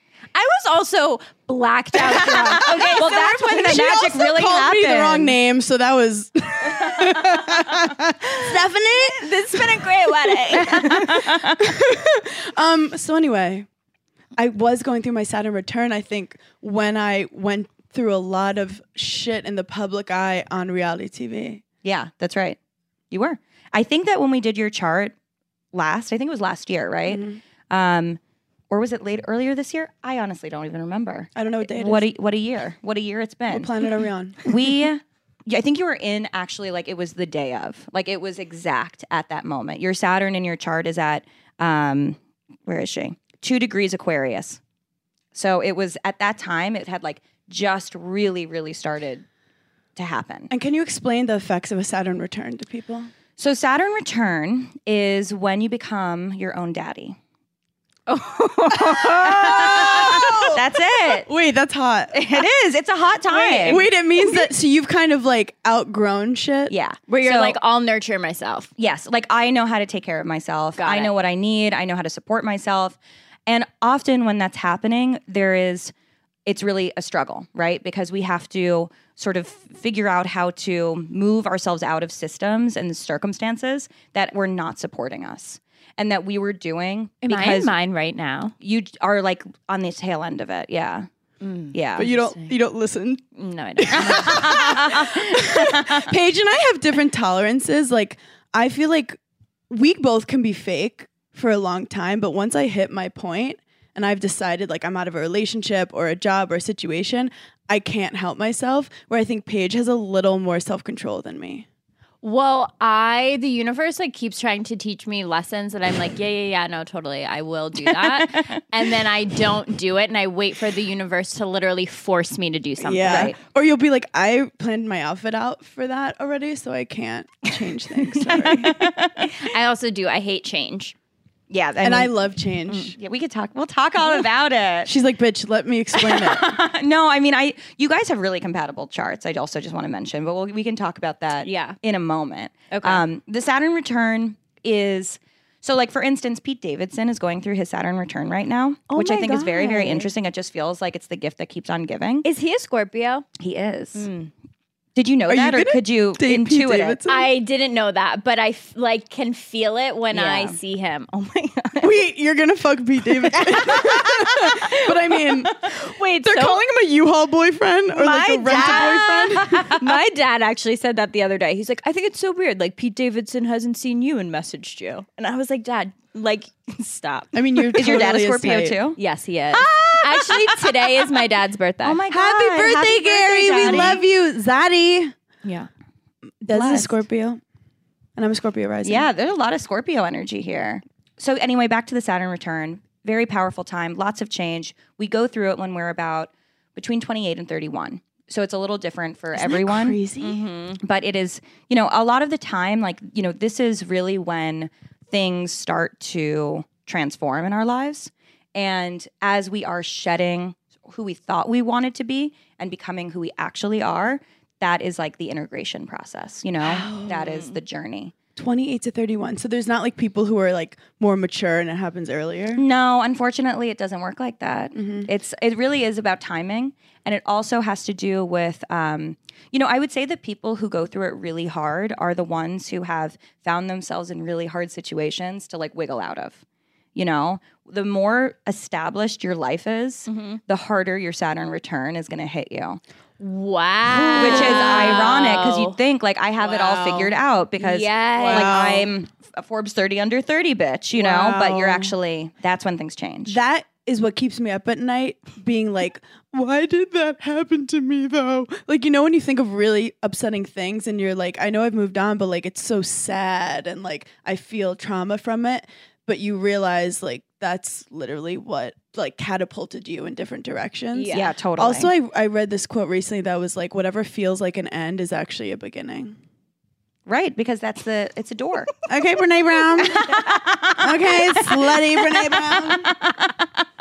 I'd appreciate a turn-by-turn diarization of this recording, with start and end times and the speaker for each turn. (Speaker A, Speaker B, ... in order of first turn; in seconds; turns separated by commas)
Speaker A: 0.3-3.8, Speaker B: 2.2-5.4, Speaker C: 2.6-13.7, Speaker A: 8.9-11.2, Speaker B: 10.8-11.7, Speaker C: 14.4-21.6, Speaker B: 21.8-22.6, Speaker B: 23.1-25.1, Speaker B: 25.7-33.7, Speaker C: 27.1-27.4, Speaker C: 31.4-32.1, Speaker C: 33.5-34.4, Speaker B: 34.4-44.6, Speaker B: 45.3-49.2, Speaker B: 50.0-50.5, Speaker C: 50.5-53.1, Speaker B: 53.4-57.2, Speaker A: 58.1-60.0, Speaker B: 58.9-61.3, Speaker C: 59.0-62.5, Speaker B: 62.1-63.9, Speaker C: 63.4-66.7, Speaker A: 63.4-63.8, Speaker B: 66.7-67.6, Speaker A: 67.1-68.7, Speaker B: 68.8-75.9, Speaker A: 70.8-71.1, Speaker B: 76.5-87.8, Speaker A: 87.2-88.5, Speaker B: 88.6-91.1, Speaker A: 91.4-92.5, Speaker B: 91.7-92.1, Speaker C: 92.0-93.2, Speaker A: 93.3-94.6, Speaker C: 93.8-99.2, Speaker B: 94.0-96.1, Speaker C: 99.7-111.7, Speaker A: 112.2-123.3, Speaker B: 117.9-118.5, Speaker C: 122.8-128.8, Speaker B: 123.0-123.3, Speaker B: 128.3-129.4, Speaker A: 129.2-130.9, Speaker B: 131.5-132.2, Speaker C: 131.8-132.9, Speaker B: 132.9-134.9, Speaker C: 134.8-136.6, Speaker B: 135.9-152.2, Speaker A: 141.4-141.8, Speaker A: 142.7-143.0, Speaker A: 148.9-150.1, Speaker A: 152.2-153.3, Speaker B: 153.4-154.1, Speaker A: 153.9-154.3, Speaker B: 155.0-157.0, Speaker C: 155.3-157.3, Speaker A: 157.1-161.9, Speaker B: 160.1-160.6, Speaker C: 161.8-165.6, Speaker A: 163.4-163.8, Speaker B: 163.8-164.6, Speaker A: 165.6-166.6, Speaker C: 166.2-169.7, Speaker A: 167.9-177.3, Speaker B: 168.5-169.8, Speaker C: 177.3-178.8, Speaker B: 177.7-179.0, Speaker A: 179.0-182.0, Speaker B: 179.5-180.8, Speaker B: 181.8-184.0, Speaker C: 182.1-185.2, Speaker A: 183.6-184.0, Speaker A: 185.4-185.7, Speaker C: 186.4-187.4, Speaker B: 186.5-186.9, Speaker C: 188.2-189.1, Speaker B: 188.8-200.0, Speaker C: 199.3-200.4, Speaker A: 200.2-200.8, Speaker B: 200.8-218.1, Speaker C: 216.6-217.5, Speaker C: 218.4-222.6, Speaker B: 222.6-236.4, Speaker C: 224.8-225.1, Speaker B: 236.9-242.8, Speaker A: 240.1-240.4, Speaker A: 243.2-245.8, Speaker B: 243.9-253.4, Speaker C: 244.2-244.6, Speaker A: 246.4-248.6, Speaker C: 248.2-248.9, Speaker C: 250.9-251.9, Speaker C: 253.3-276.1, Speaker A: 270.9-271.3, Speaker B: 271.1-271.9, Speaker B: 277.1-278.7, Speaker C: 278.9-280.2, Speaker B: 279.8-281.6, Speaker C: 280.8-282.9, Speaker B: 282.3-283.3